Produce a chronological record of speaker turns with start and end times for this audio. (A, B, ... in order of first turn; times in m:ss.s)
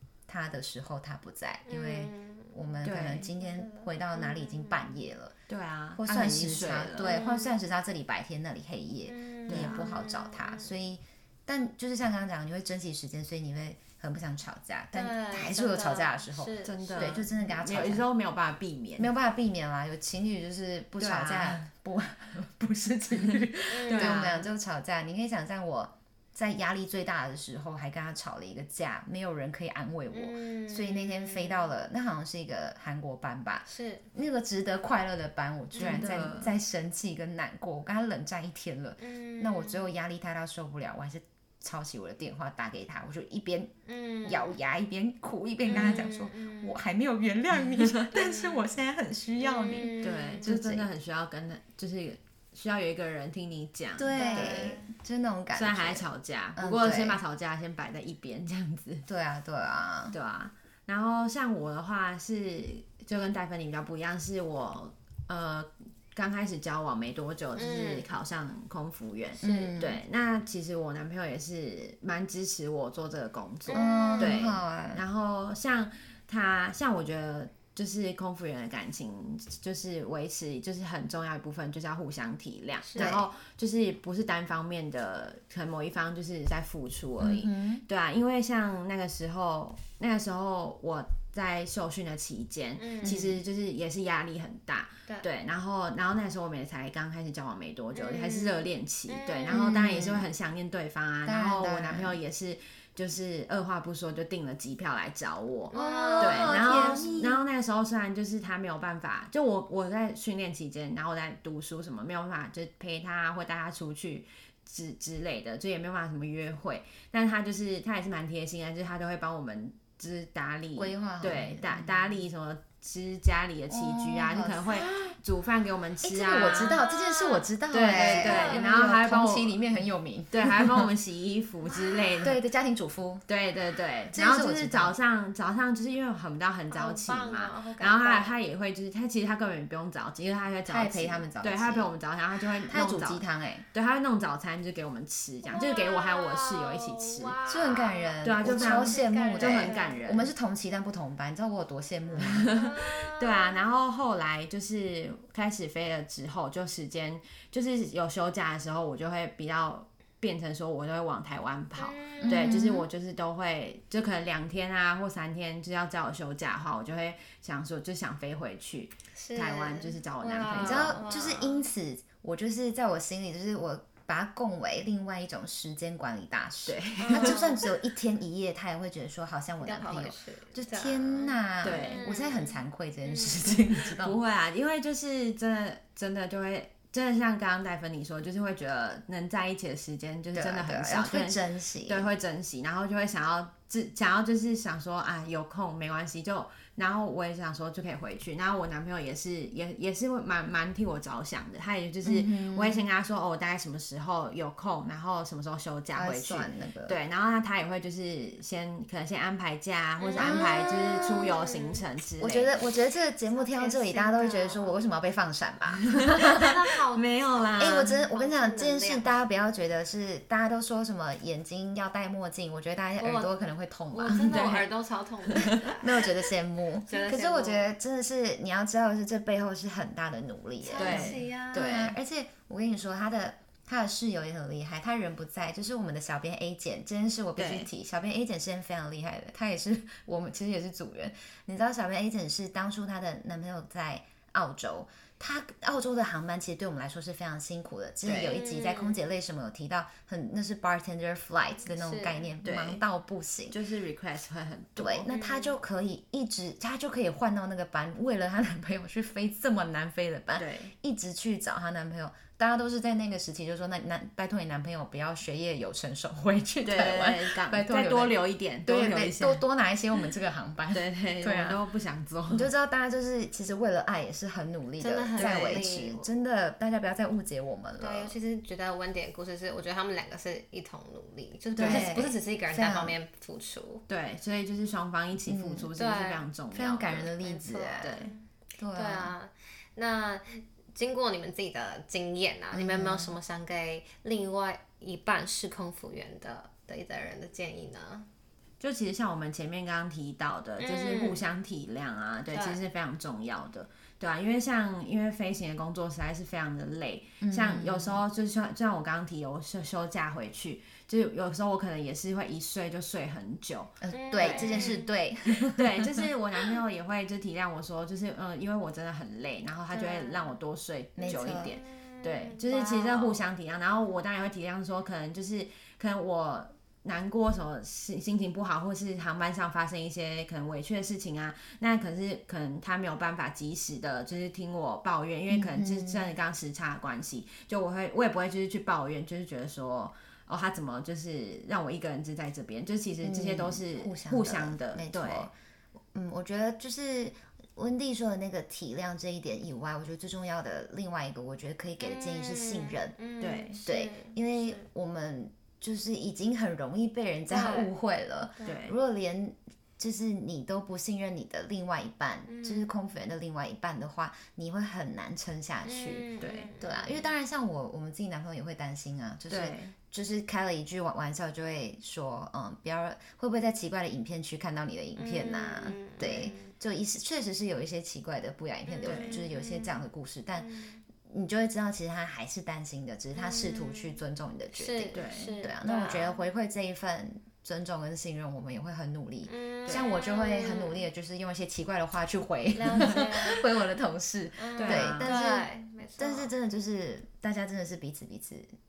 0:00.3-0:05.4 A
0:01.7-0:02.6 B
0:02.8-0:03.3 C
0:03.2-0:05.0 B
0:05.5-0:07.2 C
0:06.0-0:18.1 A
0:07.0-0:07.6 B
0:09.1-0:10.7 B
0:09.5-0:09.9 C
0:14.9-0:17.2 B
0:16.6-0:19.1 C
0:19.0-0:50.9 A
0:21.0-0:21.7 C
0:23.2-0:24.5 C
0:23.7-0:24.2 B
0:30.1-0:31.6 B
0:33.7-0:34.1 B
0:35.8-0:36.1 B
0:35.8-0:36.5 C
0:39.0-0:39.9 B
0:43.9-0:44.6 B
0:45.7-0:46.8 B
0:45.7-0:46.0 C
0:47.6-0:48.0 C
0:48.1-0:48.7 B
0:49.4-0:50.5 B
0:50.0-0:54.6 C
0:54.0-0:57.2 A
0:54.1-0:54.9 B
0:55.5-0:59.1 C
0:59.1-1:00.2 A
1:00.1-2:06.8 C
1:07.6-1:08.1 B
1:09.4-1:10.0 A
1:09.4-1:09.7 B
1:13.7-1:14.4 B
1:13.7-1:15.0 A
1:22.8-1:23.2 B
1:23.0-1:23.3 A
1:27.2-1:27.8 A
1:32.8-1:33.3 B
1:33.0-1:33.4 A
1:38.0-1:39.6 B
1:39.5-1:40.3 A
1:41.2-1:42.2 A
1:45.7-1:47.1 B
1:45.7-1:47.4 A
2:00.8-2:02.2 A
2:03.7-2:05.2 A
2:06.0-2:10.9 A
2:06.7-2:08.8 B
2:07.7-2:09.8 C
2:10.3-2:12.4 C
2:12.2-2:13.2 A
2:13.3-2:27.4 C
2:14.1-2:15.0 A
2:16.7-2:18.3 B
2:20.7-2:22.0 A
2:22.7-2:23.6 A
2:25.5-2:30.0 B
2:27.5-2:32.5 A
2:28.2-2:30.3 C
2:32.2-2:51.0 C
2:32.2-2:33.6 B
2:41.8-2:42.7 B
2:42.2-2:42.9 A
2:49.2-2:51.6 B
2:50.5-3:04.2 A
2:56.7-2:57.4 C
2:57.0-2:57.7 B
2:59.6-3:03.5 B
3:01.6-3:02.0 C
3:04.0-3:32.6 C
3:10.3-3:12.1 A
3:22.0-3:22.8 A
3:25.9-3:27.0 A
3:30.0-3:31.8 B
3:30.2-3:31.4 A
3:32.2-3:36.5 A
3:33.3-3:34.7 B
3:35.8-3:38.0 C
3:36.4-3:39.2 B
3:37.6-3:44.5 A
3:43.0-3:43.4 B
3:43.9-3:46.1 B
3:44.3-3:44.7 C
3:45.3-3:45.7 C
3:45.4-4:13.6 A
3:46.9-3:47.7 B
3:50.6-3:51.8 B
3:50.8-3:52.0 C
3:57.4-3:57.7 C
4:08.0-4:08.4 C
4:08.3-4:09.0 B
4:11.7-4:12.2 B
4:12.4-4:12.8 C
4:13.5-4:15.1 C
4:14.8-4:31.6 A
4:15.1-4:15.6 B
4:20.4-4:20.7 C
4:26.6-4:29.4 C
4:30.7-4:32.5 C
4:32.3-4:38.2 A
4:34.8-4:36.1 B
4:35.2-4:35.6 C
4:37.8-4:43.8 B
4:41.6-4:41.9 C
4:41.6-4:43.0 A
4:43.9-4:47.1 C
4:45.2-4:45.7 A
4:45.8-4:46.2 B
4:46.5-4:48.0 A
4:47.2-4:58.1 B
4:47.8-4:48.1 C
4:48.6-4:49.1 A
4:52.5-4:53.2 A
4:58.6-5:14.9 C
5:00.6-5:01.2 B
5:02.3-5:02.6 B
5:07.2-5:08.0 A
5:13.8-5:16.0 A
5:13.9-5:14.9 B
5:15.5-5:45.3 C
5:19.7-5:20.3 B
5:21.0-5:21.6 A
5:21.0-5:23.2 B
5:35.3-5:36.1 A
5:43.0-5:45.3 A
5:45.9-5:53.0 A
5:51.8-5:54.6 B
5:53.2-5:53.6 C
5:53.7-6:38.5 A
5:57.3-5:57.7 B
5:58.4-5:58.8 C
6:02.3-6:02.7 B
6:05.6-6:07.1 B
6:06.2-6:06.5 C
6:09.3-6:09.8 C
6:15.0-6:16.5 B
6:18.7-6:19.8 B
6:18.8-6:19.2 C
6:20.4-6:20.8 B
6:23.2-6:24.0 B
6:24.5-6:26.2 B
6:24.9-6:25.4 C
6:29.3-6:30.8 B
6:32.6-6:33.4 B
6:34.4-6:36.3 B
6:34.6-6:35.1 C